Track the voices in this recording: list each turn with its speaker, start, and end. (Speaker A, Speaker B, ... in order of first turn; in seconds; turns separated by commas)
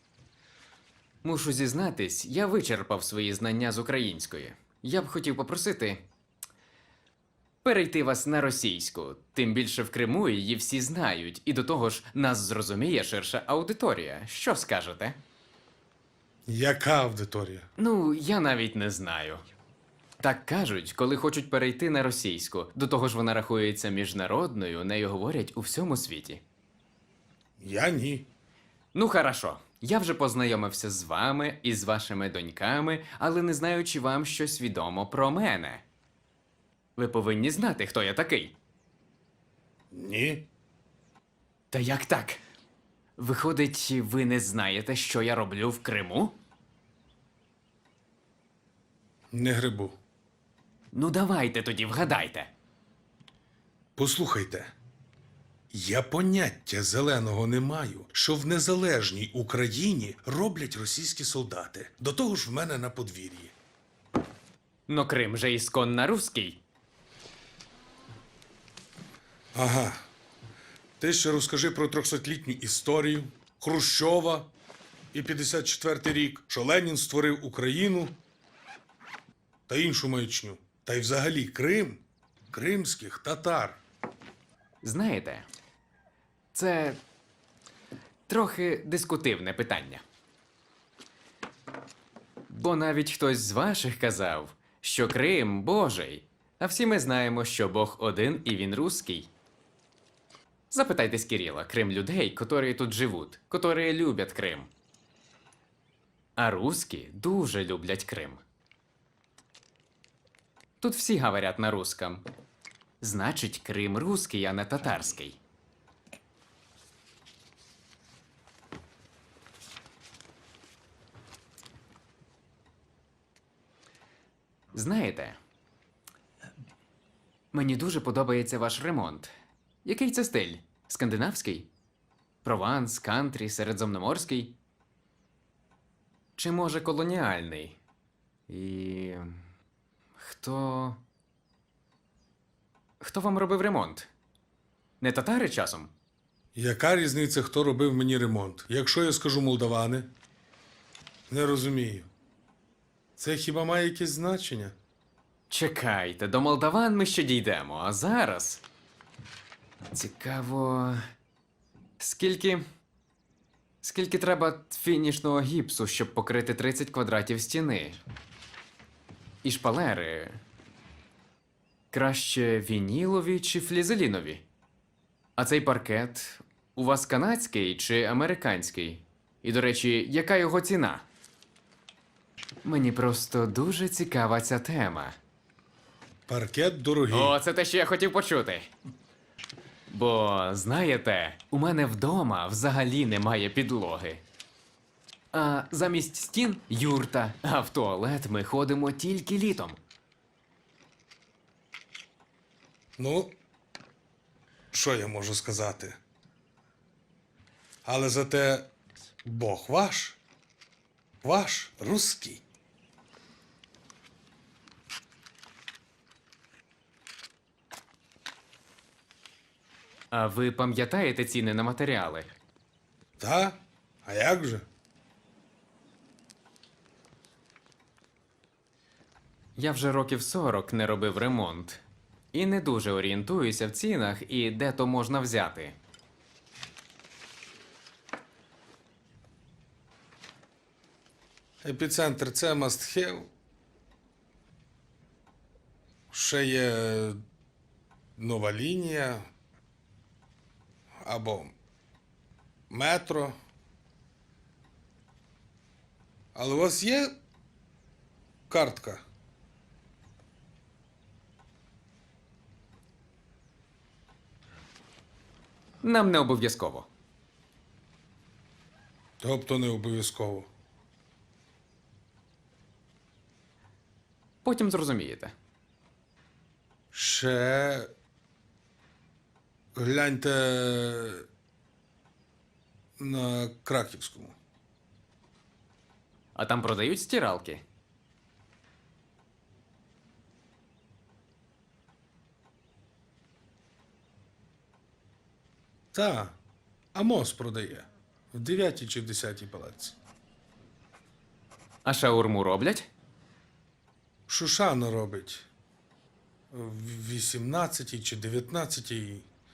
Speaker A: 1.2-6.0, Speaker A: 7.6-15.2, Speaker B: 16.5-17.7, Speaker A: 17.8-19.4, Speaker A: 20.2-26.4, Speaker B: 27.6-28.2, Speaker A: 28.9-35.8, Speaker A: 37.0-38.5, Speaker B: 39.9-40.4, Speaker A: 41.7-42.4, Speaker A: 43.2-46.3, Speaker B: 49.3-50.0, Speaker A: 50.9-52.5, Speaker B: 54.0-54.7, Speaker B: 55.7-63.5, Speaker A: 64.9-66.6, Speaker B: 69.5-70.0, Speaker B: 71.0-74.5, Speaker B: 75.1-78.1, Speaker B: 79.7-83.8, Speaker A: 84.8-85.5, Speaker A: 86.5-87.0, Speaker A: 88.3-90.0, Speaker A: 92.5-99.3, Speaker A: 100.7-104.7, Speaker A: 106.4-108.4, Speaker A: 110.8-112.2, Speaker A: 113.0-115.4, Speaker A: 124.7-125.4, Speaker A: 127.5-129.3, Speaker A: 129.8-131.7, Speaker A: 132.4-134.5, Speaker A: 136.4-137.8, Speaker A: 138.5-139.4, Speaker A: 140.2-141.0, Speaker A: 143.0-144.1, Speaker A: 145.0-145.9, Speaker B: 146.6-150.1, Speaker B: 151.3-152.1, Speaker B: 153.2-154.8, Speaker A: 155.5-158.6, Speaker A: 159.9-161.0, Speaker A: 162.0-162.6, Speaker A: 163.8-168.0, Speaker A: 169.4-170.4, Speaker A: 171.9-174.4, Speaker A: 175.4-181.0, Speaker A: 182.6-185.2, Speaker B: 186.3-187.4, Speaker A: 187.1-188.7, Speaker A: 189.9-194.2, Speaker A: 195.3-199.8, Speaker B: 203.0-203.3, Speaker B: 204.7-206.0, Speaker B: 207.8-208.7, Speaker B: 209.2-210.2, Speaker B: 211.2-212.4, Speaker A: 220.1-222.3, Speaker B: 223.2-224.7, Speaker A: 229.6-235.8, Speaker B: 241.6-243.3, Speaker B: 246.1-247.2, Speaker B: 248.2-249.2, Speaker B: 251.0-251.5, Speaker B: 252.7-253.4, Speaker B: 256.4-257.1, Speaker B: 258.5-259.0, Speaker A: 265.8-266.9, Speaker B: 269.2-270.5, Speaker A: 274.4-275.3, Speaker B: 276.9-277.9, Speaker B: 279.8-281.2, Speaker B: 283.0-284.4, Speaker A: 286.4-287.6, Speaker B: 295.9-296.4, Speaker B: 296.9-300.0, Speaker A: 301.9-302.9, Speaker B: 304.3-305.5, Speaker B: 306.5-309.3